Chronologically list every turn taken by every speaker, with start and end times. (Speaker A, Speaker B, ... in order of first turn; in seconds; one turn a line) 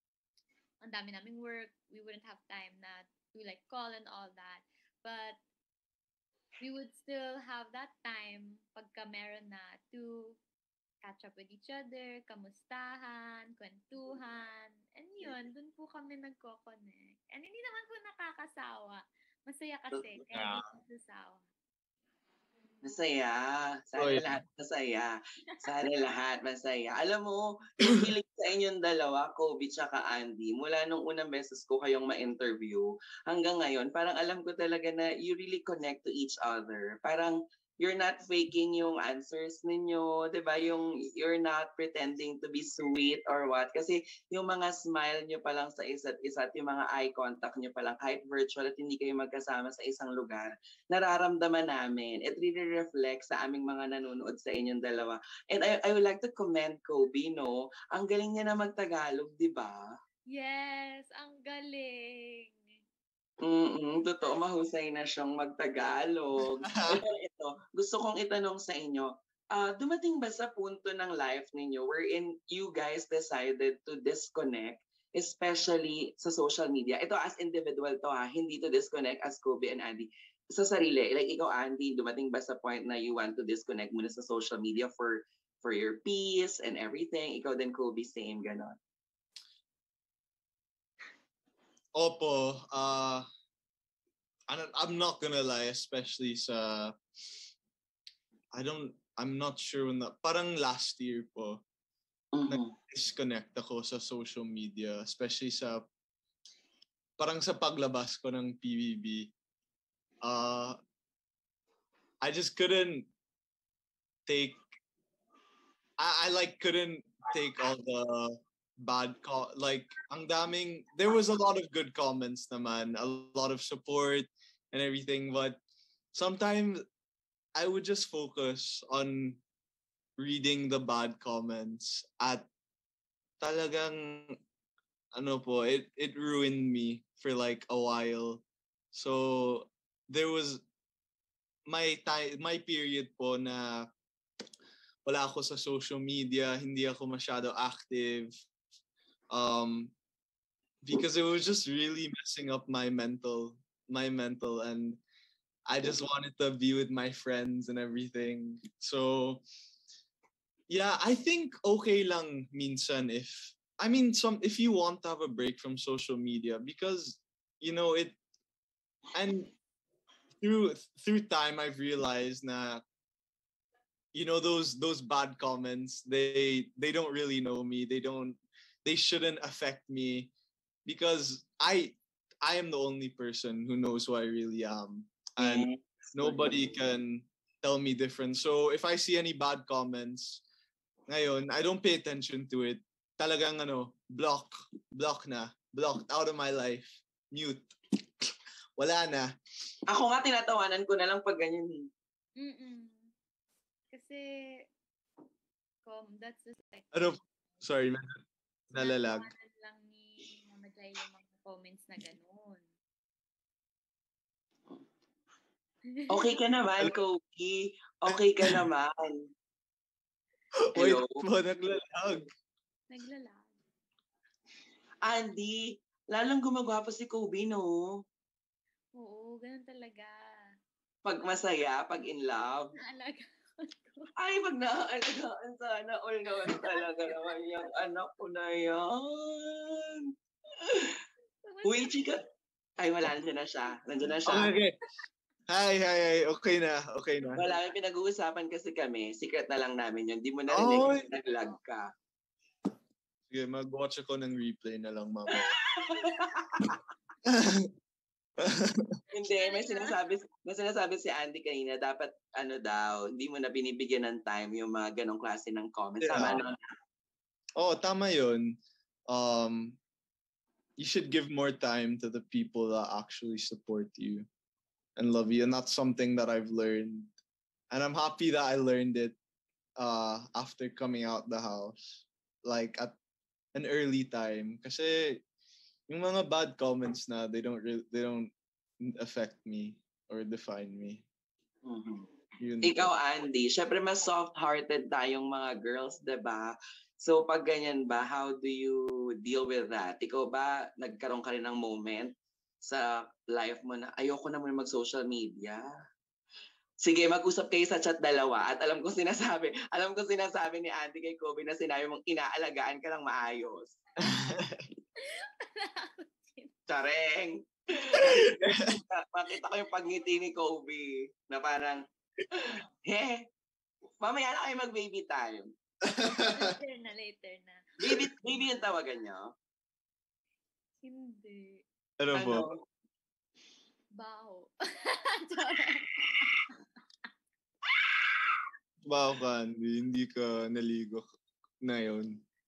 Speaker A: 0.8-5.4
Speaker A: 6.6-10.4
Speaker A: 11.0-21.4
Speaker B: 20.3-20.6
Speaker C: 22.8-59.8
Speaker B: 24.0-24.4
Speaker A: 60.3-62.6
Speaker C: 63.4-88.8
Speaker B: 66.6-67.0
Speaker B: 92.0-93.3
Speaker B: 94.5-97.0
Speaker B: 98.5-101.6
Speaker C: 102.3-102.7
Speaker B: 102.5-105.9
Speaker B: 107.2-109.3
Speaker B: 110.2-110.8
Speaker B: 112.2-113.1
Speaker B: 114.3-114.6
Speaker B: 116.0-125.6
Speaker B: 126.1-126.8
Speaker B: 127.5-129.4
Speaker B: 130.2-132.5
Speaker B: 133.4-134.4
Speaker B: 135.1-140.6
Speaker B: 141.7-143.9
Speaker B: 145.1-148.3
Speaker B: 149.3-149.9
Speaker B: 150.8-155.0
Speaker B: 155.7-159.4
Speaker B: 160.7-168.2
Speaker B: 169.1-169.5
Speaker B: 170.4-172.8
Speaker B: 174.1-180.3
Speaker B: 180.9-190.4
Speaker C: 185.4-186.6
Speaker B: 191.1-199.3
Speaker C: 199.9-201.9
Speaker A: 202.4-203.1
Speaker A: 203.9-204.7
Speaker A: 205.8-207.6
Speaker B: 206.9-209.3
Speaker A: 208.7-212.6
Speaker A: 215.9-216.3
Speaker C: 216.1-219.2
Speaker B: 218.1-218.7
Speaker B: 220.6-222.3
Speaker C: 220.8-221.1
Speaker A: 222.9-223.6
Speaker C: 225.0-227.9
Speaker A: 229.0-230.3
Speaker C: 231.1-232.7
Speaker A: 232.8-234.1
Speaker C: 234.2-240.1
Speaker A: 236.4-237.3
Speaker C: 240.6-241.0
Speaker A: 241.4-241.9
Speaker C: 241.7-242.2
Speaker C: 242.8-244.5
Speaker B: 244.3-244.8
Speaker B: 245.5-247.4
Speaker C: 247.4-251.9
Speaker B: 250.5-251.1
Speaker B: 253.3-255.6
Speaker C: 255.3-256.8
Speaker B: 257.2-257.7
Speaker B: 258.4-259.0
Speaker C: 259.1-266.6
Speaker A: 259.3-260.0
Speaker B: 266.0-266.4
Speaker B: 267.6-269.8
Speaker B: 270.8-274.3
Speaker B: 275.0-277.1
Speaker B: 277.7-279.2
Speaker B: 279.8-282.9
Speaker B: 283.5-285.2
Speaker B: 285.9-291.1
Speaker C: 291.7-292.1
Speaker B: 292.4-292.9
Speaker C: 292.6-305.7
Speaker C: 306.8-313.8
Speaker B: 314.0-314.6
Speaker A: 315.1-316.5
Speaker C: 316.7-323.2
Speaker B: 318.2-318.8
Speaker C: 324.0-325.5
Speaker B: 325.8-326.6
Speaker A: 326.1-328.5
Speaker C: 327.8-329.3
Speaker A: 330.8-331.6
Speaker B: 332.0-332.5
Speaker C: 332.1-332.6
Speaker A: 333.9-336.5
Speaker B: 338.9-341.1
Speaker B: 341.6-342.2